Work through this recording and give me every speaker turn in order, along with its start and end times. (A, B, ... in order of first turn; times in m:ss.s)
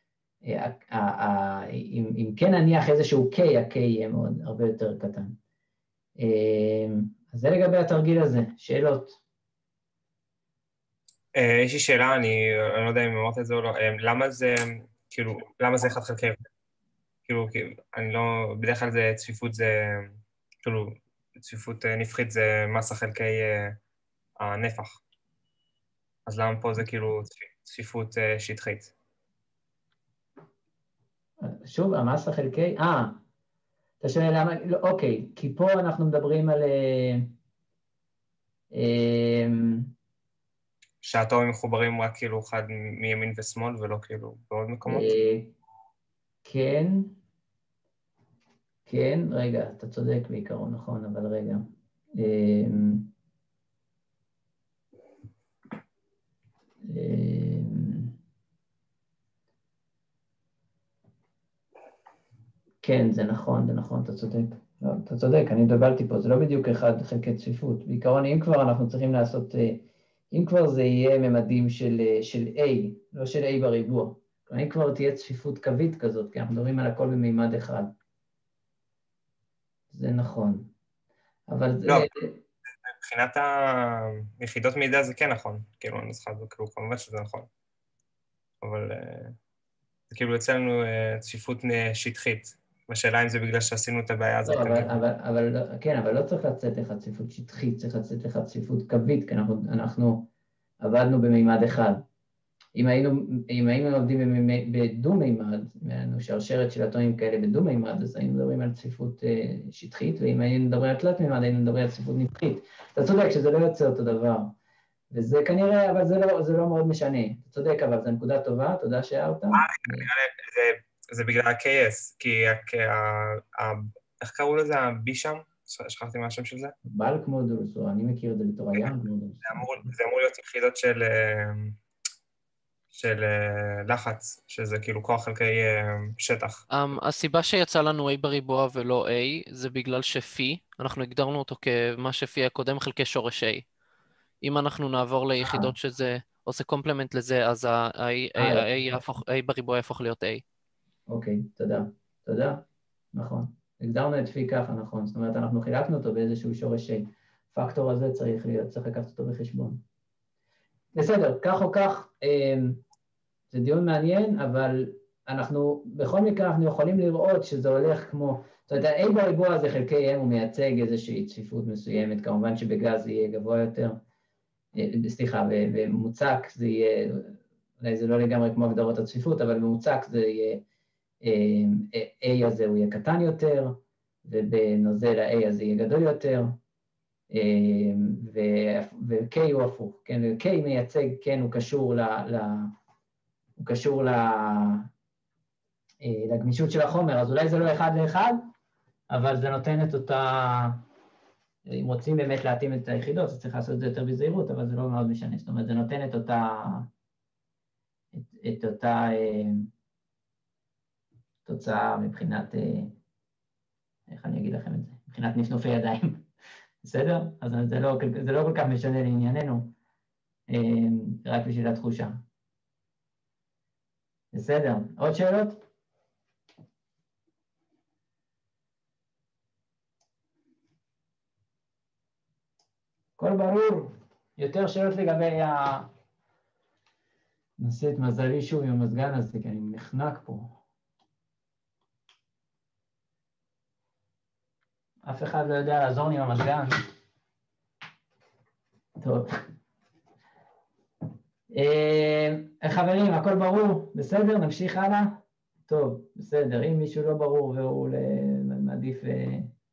0:00.4-0:05.4 A
0:06.2-0:09.2 A
0:11.4-0:16.4 B
0:17.3-0:23.8 B
0:24.4-0:25.0 B
0:26.3-0:28.9 B
0:31.4-0:33.2 A
0:34.0-0:37.3 A
0:38.7-0:39.9 A
0:41.0-0:45.1 B
0:44.9-0:45.5 A
0:46.4-0:47.1 A
0:48.9-0:53.1 A
0:56.8-0:58.1 A
1:02.8-1:17.9 A
1:19.9-1:20.7 A
1:21.5-1:22.4 A
1:23.0-1:27.5 B
1:28.6-1:29.4 B
1:30.1-1:35.0 B
1:34.4-1:40.3 A
1:40.8-1:42.0 A
1:42.8-1:54.6 A
1:55.1-2:00.1 A
1:59.6-2:06.8 B
2:06.8-2:09.9 A
2:09.4-2:11.8 B
2:12.9-2:16.6 B
2:16.7-2:23.6 C
2:24.4-2:30.4 C
2:25.4-2:25.7 A
2:28.4-2:29.1 A
2:31.1-2:39.8 A
2:41.0-2:42.8 A
2:43.5-2:54.0 A
2:54.8-3:00.6 A
3:01.2-3:06.6 A
3:07.3-3:12.7 A
3:13.6-3:14.9 A
3:16.0-3:18.5 A
3:19.1-3:20.8 A
3:21.7-3:26.9 A
3:28.1-3:29.7 A
3:31.4-3:33.0 A
3:34.1-3:36.3 A
3:36.8-3:39.7 A
3:40.5-3:42.2 A
3:44.3-3:45.6 A
3:53.2-3:55.9 A
3:57.6-4:00.6 A
4:05.0-4:06.8 A
4:09.0-4:09.3 A
4:11.5-4:19.5 A